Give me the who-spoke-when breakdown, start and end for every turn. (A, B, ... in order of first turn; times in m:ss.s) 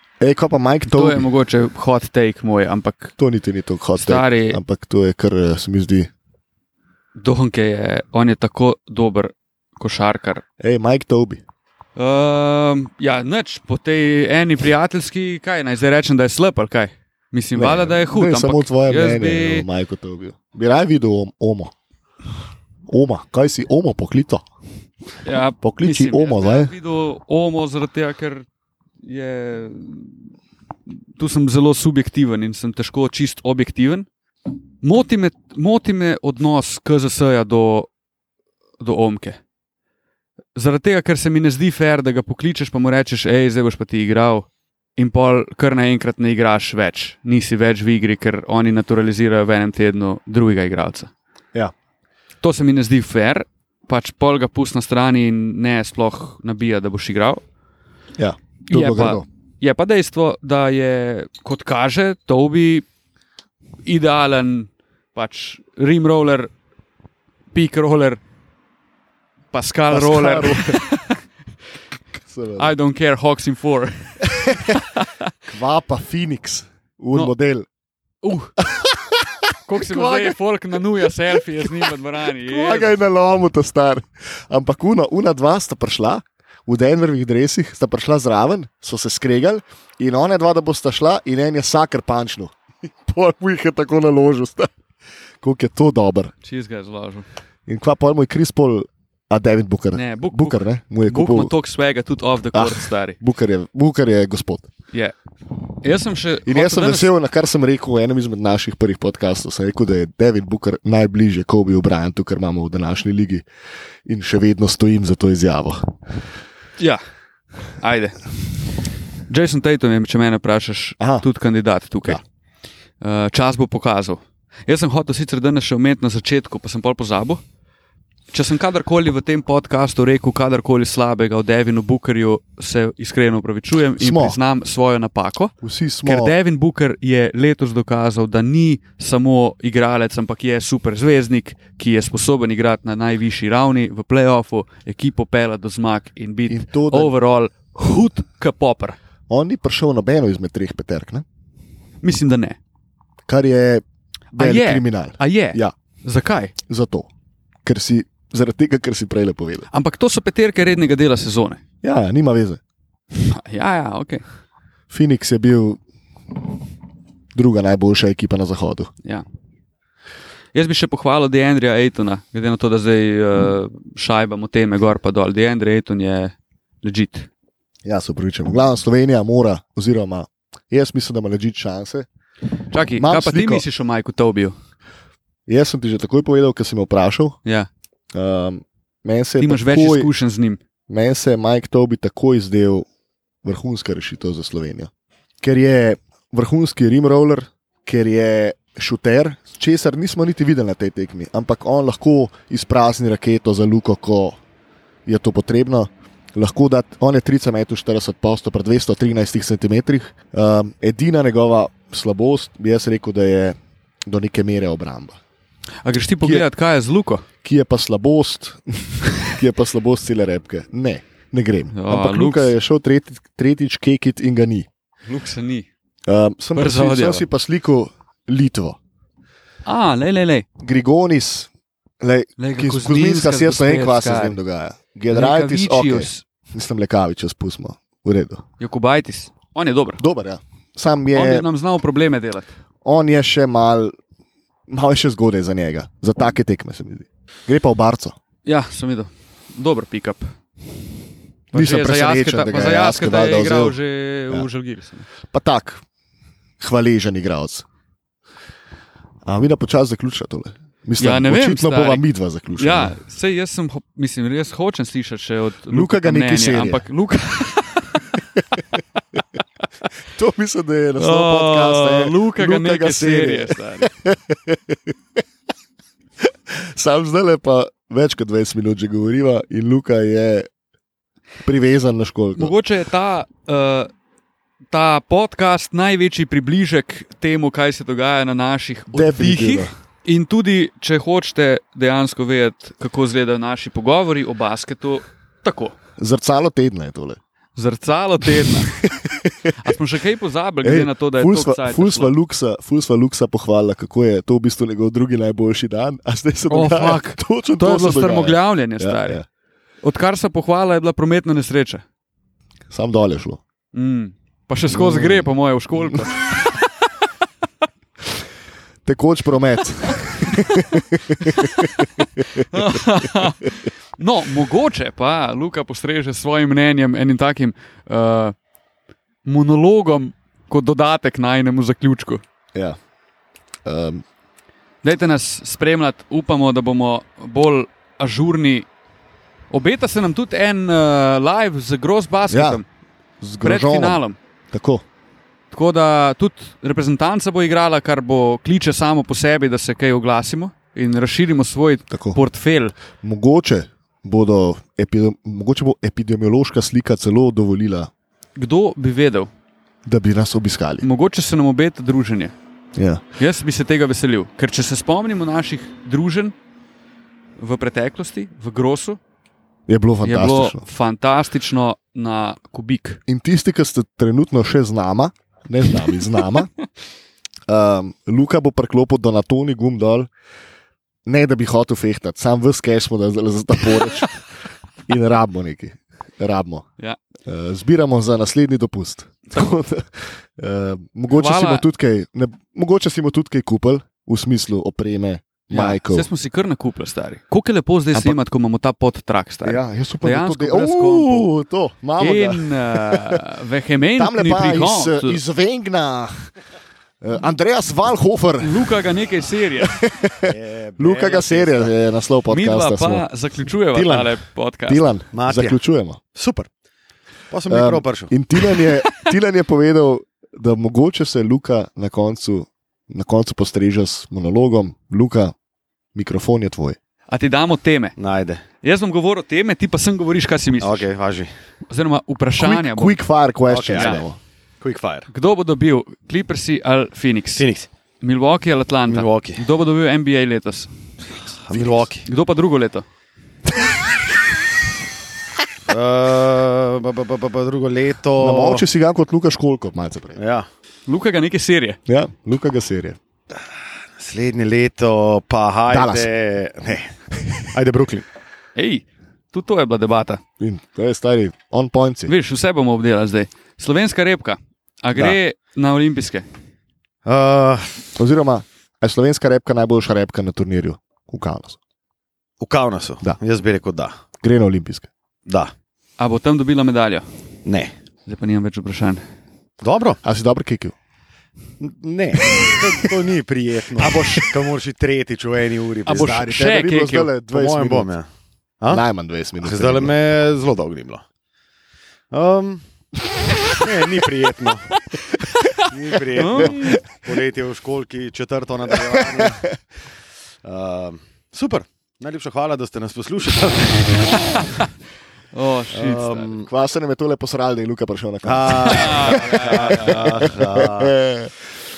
0:00.2-0:01.3 A
0:00.9-0:03.1 B
0:03.2-0:06.1 A
0:04.0-0:04.6 B
0:07.2-0:10.4 B
0:10.6-0:11.4 A
0:12.0-0:19.7 B
0:17.6-0:21.7 A
0:22.9-0:24.4 A
0:25.2-0:28.4 B
0:25.6-0:26.7 A
0:29.0-0:30.2 B
0:31.2-0:34.1 B
0:34.8-0:37.9 B
0:38.8-0:39.4 B
0:40.6-0:51.1 B
0:52.4-0:57.4 B
0:58.2-0:59.2 A
0:58.7-1:02.8 B
1:03.8-1:06.5 B
1:07.5-1:08.2 B
1:09.5-1:11.2 B
1:09.9-1:10.8 A
1:12.2-1:12.7 A
1:12.6-1:15.2 B
1:14.3-1:14.7 A
1:15.5-1:17.7 A
1:18.2-1:18.5 B
1:18.6-1:20.4 A
1:19.6-1:22.9 B
1:21.6-1:21.9 A
1:22.4-1:34.7 A
1:35.4-1:36.3 A
1:36.4-1:37.3 B
1:37.7-1:41.5 A
1:39.9-1:43.2 B
1:42.5-1:44.7 A
1:45.8-1:47.1 B
1:46.4-1:53.4 A
1:54.0-1:56.0 A
1:57.8-1:58.2 B
1:59.3-2:02.2 B
2:01.0-2:01.2 A
2:03.0-2:07.4 B
2:08.3-2:15.5 B
2:14.0-2:14.4 A
2:15.6-2:16.3 A
2:16.0-2:29.0 B
2:26.5-2:27.1 A
2:29.3-2:31.2 A
2:32.0-2:32.6 B
2:33.3-2:35.7 A
2:34.3-2:36.5 B
2:36.6-2:37.1 A
2:37.6-2:39.7 A
2:39.7-2:41.6 B
2:41.8-2:42.6 A
2:43.2-2:44.2 B
2:44.9-2:45.8 A
2:47.3-2:48.9 A
2:50.5-2:57.3 B
2:57.8-3:02.1 A
3:02.7-3:04.6 B
3:03.0-3:03.6 A
3:05.5-3:07.4 A
3:08.1-3:10.1 A
3:09.4-3:10.6 B
3:10.9-3:12.8 A
3:13.4-3:14.9 A
3:15.4-3:24.4 A
3:25.0-3:35.2 A
3:35.8-3:37.2 B
3:37.4-3:44.7 A
3:41.7-3:42.5 B
3:45.1-3:45.7 B
3:46.1-3:48.8 A
3:46.6-3:47.3 B
3:49.6-3:50.4 B
3:50.6-3:51.5 A
3:52.0-3:58.4 A
3:52.4-3:54.4 B
3:55.1-3:56.2 B
3:58.6-4:00.0 B
4:00.0-4:01.4 A
4:01.1-4:02.5 B
4:02.8-4:04.0 A
4:04.7-4:08.2 A
4:08.4-4:10.3 B
4:11.5-4:15.1 B
4:11.5-4:13.8 A
4:15.3-4:15.8 A
4:16.6-4:17.6 A
4:19.3-4:22.9 A
4:21.0-4:22.0 B
4:22.6-4:28.1 B
4:25.7-4:26.8 A
4:30.0-4:34.9 A
4:31.0-4:33.9 B
4:36.2-4:40.5 A
4:41.4-4:42.5 A
4:42.4-4:43.9 B
4:44.7-4:55.7 B
4:48.9-4:49.7 A
4:56.0-4:57.2 A
4:57.6-4:58.8 B
4:58.3-4:59.6 A
4:59.5-5:02.1 B
5:00.6-5:09.2 A
5:06.5-5:09.2 B
5:09.8-5:11.8 B
5:12.7-5:13.4 A
5:13.7-5:16.6 B
5:14.7-5:15.2 A
5:18.8-5:23.3 A
5:22.5-5:28.4 B
5:29.2-5:32.2 B
5:33.6-5:34.0 A
5:34.8-5:38.7 B
5:39.5-5:42.6 B
5:42.3-5:42.6 A
5:43.2-5:44.8 A
5:43.4-5:44.2 B
5:45.5-5:52.8 B
5:51.9-5:52.2 A
5:53.0-5:57.9 A
5:58.4-5:59.3 B
5:59.8-6:00.8 A
6:00.8-6:02.3 B
6:02.8-6:03.0 A
6:03.2-6:06.4 B
6:07.4-6:09.0 B
6:09.7-6:10.6 A
6:10.0-6:13.0 B
6:13.1-6:16.5 A
6:17.5-6:20.1 A
6:21.0-6:24.2 A
6:24.9-6:26.7 A
6:27.3-6:36.1 A
6:31.1-6:31.6 B
6:35.5-6:41.3 B
6:39.4-6:43.2 A
6:42.0-6:45.2 B
6:44.0-6:46.3 A
6:47.0-6:48.6 A
6:48.4-6:49.8 B
6:49.6-6:53.0 A
6:50.3-6:51.7 C
6:52.3-6:54.8 B
6:53.7-6:54.1 C
6:54.7-6:56.0 A
6:55.1-6:55.6 C
6:56.1-6:56.5 C
6:57.3-6:58.1 C
6:57.5-7:05.3 A
6:58.4-6:59.1 B
7:05.9-7:06.8 A
7:07.1-7:07.9 B
7:08.0-7:08.4 C
7:08.6-7:10.9 B
7:10.6-7:11.3 C
7:11.7-7:13.0 B
7:12.4-7:14.2 A
7:13.5-7:14.0 C
7:13.7-7:14.0 B
7:14.6-7:15.1 C
7:15.1-7:17.4 B
7:17.4-7:17.7 C
7:18.0-7:20.7 B
7:18.9-7:19.4 C
7:21.4-7:22.0 C
7:21.5-7:22.8 B
7:25.7-7:28.6 C
7:28.2-7:30.2 A
7:30.2-7:30.5 C
7:30.9-7:31.8 B
7:31.9-7:33.0 A
7:34.0-7:36.9 C
7:35.7-7:36.1 A
7:37.5-7:38.0 C
7:38.6-7:40.2 B
7:40.4-7:42.1 A
7:42.1-7:46.3 B
7:47.0-7:47.9 C
7:48.0-7:51.6 A
7:52.4-7:53.9 C
7:54.2-7:54.9 A
7:55.3-7:55.5 C
7:56.0-7:57.0 B
7:57.4-7:57.7 C
7:58.0-7:59.0 B
7:59.6-8:00.0 C
8:00.0-8:00.7 A
8:01.6-8:06.3 C
8:02.3-8:02.9 A
8:03.8-8:04.3 A
8:05.9-8:07.1 B
8:05.9-8:07.9 A
8:07.3-8:08.1 C
8:08.7-8:09.9 A
8:09.4-8:11.0 C
8:12.1-8:12.6 C
8:13.6-8:14.7 C
8:15.0-8:16.8 B
8:15.7-8:19.6 C
8:16.4-8:16.7 A
8:18.7-8:19.5 A
8:20.4-8:24.2 C
8:25.3-8:26.3 B
8:25.7-8:26.5 C
8:26.3-8:31.3 A
8:28.2-8:31.0 C
8:28.6-8:30.0 B